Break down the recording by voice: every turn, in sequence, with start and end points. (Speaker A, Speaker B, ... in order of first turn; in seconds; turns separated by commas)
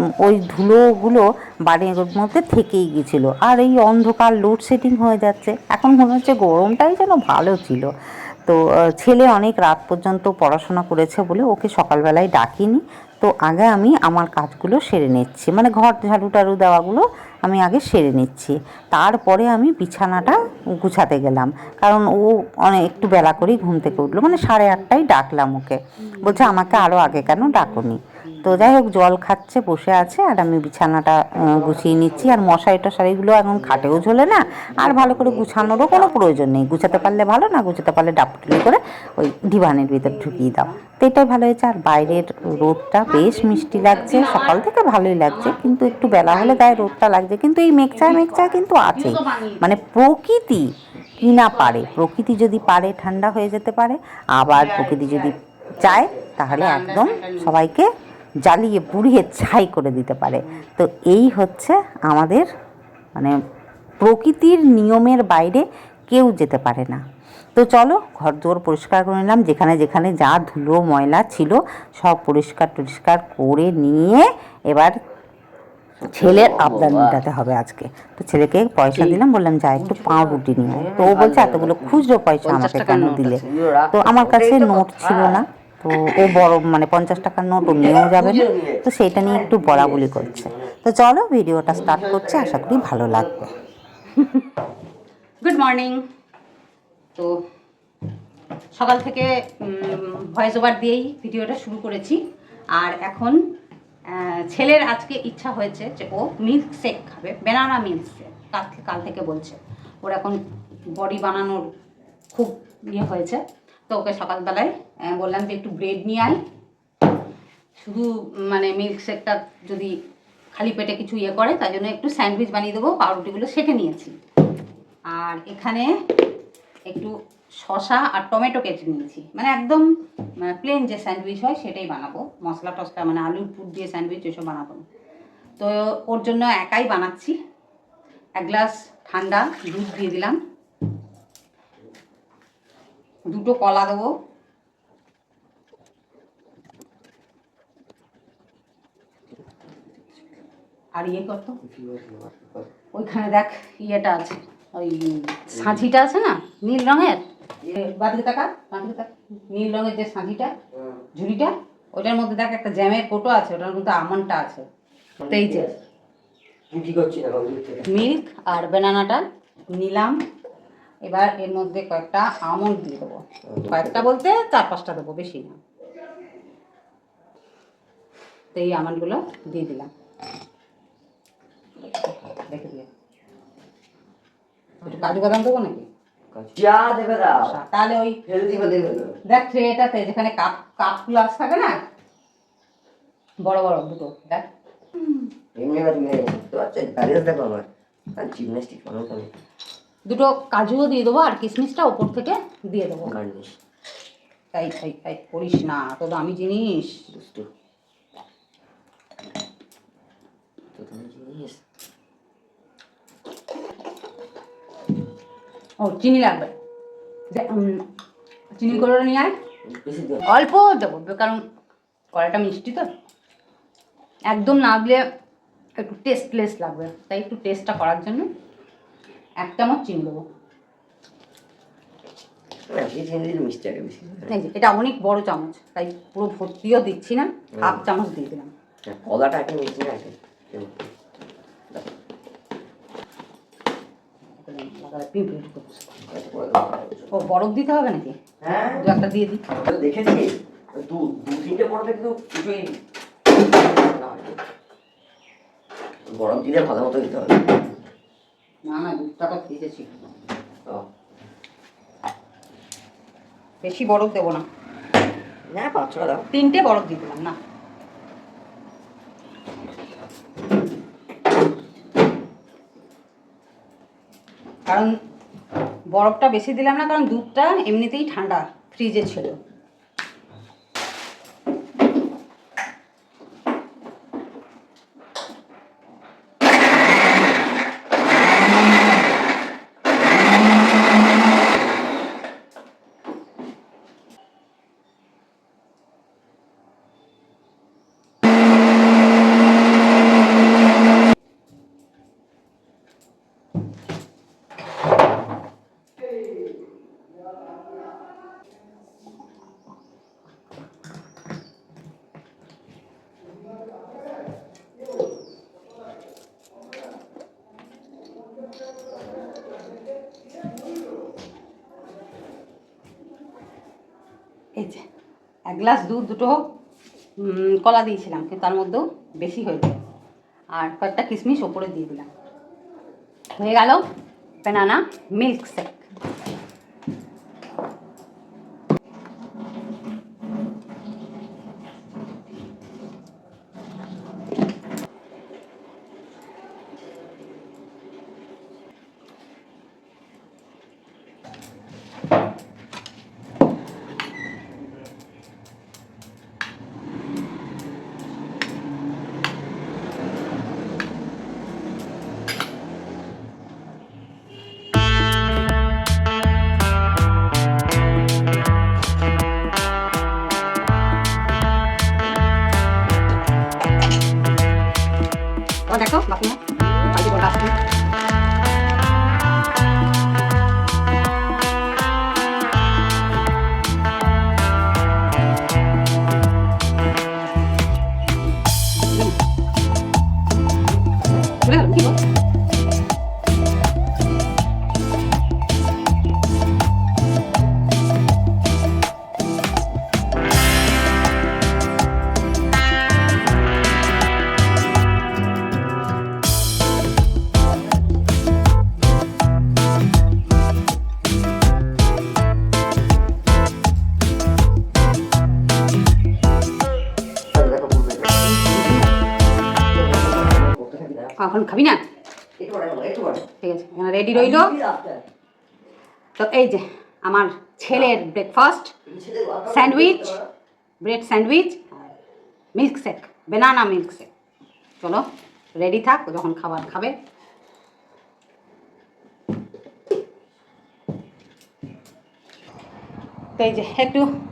Speaker A: 0.2-7.9, Speaker A: 8.5-57.9, Speaker B: 23.2-24.4, Speaker B: 26.1-27.8, Speaker C: 31.5-32.5, Speaker C: 33.4-36.3, Speaker B: 40.0-40.8, Speaker B: 43.1-44.7, Speaker B: 45.2-47.0, Speaker B: 48.0-49.8, Speaker B: 51.5-51.9, Speaker B: 54.5-55.4, Speaker C: 55.8-56.3, Speaker B: 55.9-57.7, Speaker A: 58.4-62.5, Speaker B: 60.4-60.7, Speaker A: 64.0-67.0, Speaker A: 67.6-75.0, Speaker C: 76.1-77.2, Speaker A: 76.1-93.5, Speaker B: 79.0-79.2, Speaker B: 79.8-80.4, Speaker C: 80.7-82.0, Speaker B: 82.4-83.5, Speaker C: 83.5-86.4, Speaker C: 87.6-90.8, Speaker C: 91.7-93.7, Speaker B: 94.1-94.5, Speaker B: 95.4-96.0, Speaker B: 98.7-102.2, Speaker B: 102.7-103.4, Speaker B: 104.1-110.4, Speaker B: 110.9-111.7, Speaker B: 112.3-116.4, Speaker B: 117.8-119.9, Speaker B: 120.5-124.1, Speaker B: 125.1-125.9, Speaker B: 126.9-129.8, Speaker B: 130.4-134.8, Speaker B: 135.6-137.4, Speaker B: 138.4-140.4, Speaker B: 143.3-144.1, Speaker B: 150.9-151.6, Speaker C: 151.6-152.7, Speaker B: 152.9-160.5, Speaker C: 155.5-155.8, Speaker C: 160.7-161.1, Speaker B: 161.2-164.7, Speaker C: 165.2-165.8, Speaker B: 165.3-165.7, Speaker C: 166.7-168.1, Speaker B: 167.9-170.2, Speaker B: 171.0-175.6, Speaker C: 173.4-174.0, Speaker B: 178.5-179.9, Speaker B: 182.3-182.9, Speaker B: 184.8-185.9, Speaker C: 186.3-187.6, Speaker B: 187.3-188.2, Speaker C: 188.3-189.2, Speaker B: 189.3-191.8, Speaker B: 193.4-194.5, Speaker C: 195.6-199.3, Speaker B: 200.1-203.2, Speaker C: 203.1-203.6, Speaker B: 204.5-207.0, Speaker C: 207.1-207.5, Speaker C: 210.8-211.6, Speaker B: 215.8-216.5, Speaker B: 217.3-217.8, Speaker B: 218.6-219.3, Speaker C: 219.7-220.2, Speaker B: 220.2-221.4, Speaker B: 222.1-222.9, Speaker B: 224.3-225.0, Speaker B: 225.8-228.3, Speaker B: 229.4-230.2, Speaker C: 232.7-234.3, Speaker B: 234.3-238.5, Speaker C: 237.5-237.8, Speaker C: 238.9-240.9, Speaker B: 244.4-245.9, Speaker C: 246.0-247.1, Speaker B: 247.1-248.2, Speaker C: 248.4-248.8, Speaker B: 248.7-249.4, Speaker C: 249.6-252.8, Speaker C: 253.4-254.4, Speaker C: 256.1-257.6, Speaker B: 258.7-260.0, Speaker B: 263.6-264.4, Speaker C: 265.5-266.3, Speaker B: 266.3-267.4, Speaker B: 274.7-274.9, Speaker B: 275.9-279.4, Speaker B: 324.6-324.8, Speaker B: 325.5-326.4, Speaker B: 327.2-329.8, Speaker B: 330.6-332.1, Speaker B: 333.4-333.8, Speaker B: 334.4-335.8, Speaker B: 375.7-377.6, Speaker B: 388.8-389.2, Speaker B: 391.4-392.0, Speaker C: 417.3-418.9, Speaker C: 419.7-421.1, Speaker B: 421.2-421.9, Speaker C: 422.4-423.3, Speaker B: 423.4-424.5, Speaker C: 424.1-425.0, Speaker B: 426.2-428.7, Speaker C: 428.9-430.3, Speaker B: 429.5-430.1, Speaker B: 430.8-431.9, Speaker B: 432.6-434.1, Speaker B: 435.6-436.9, Speaker B: 443.4-444.1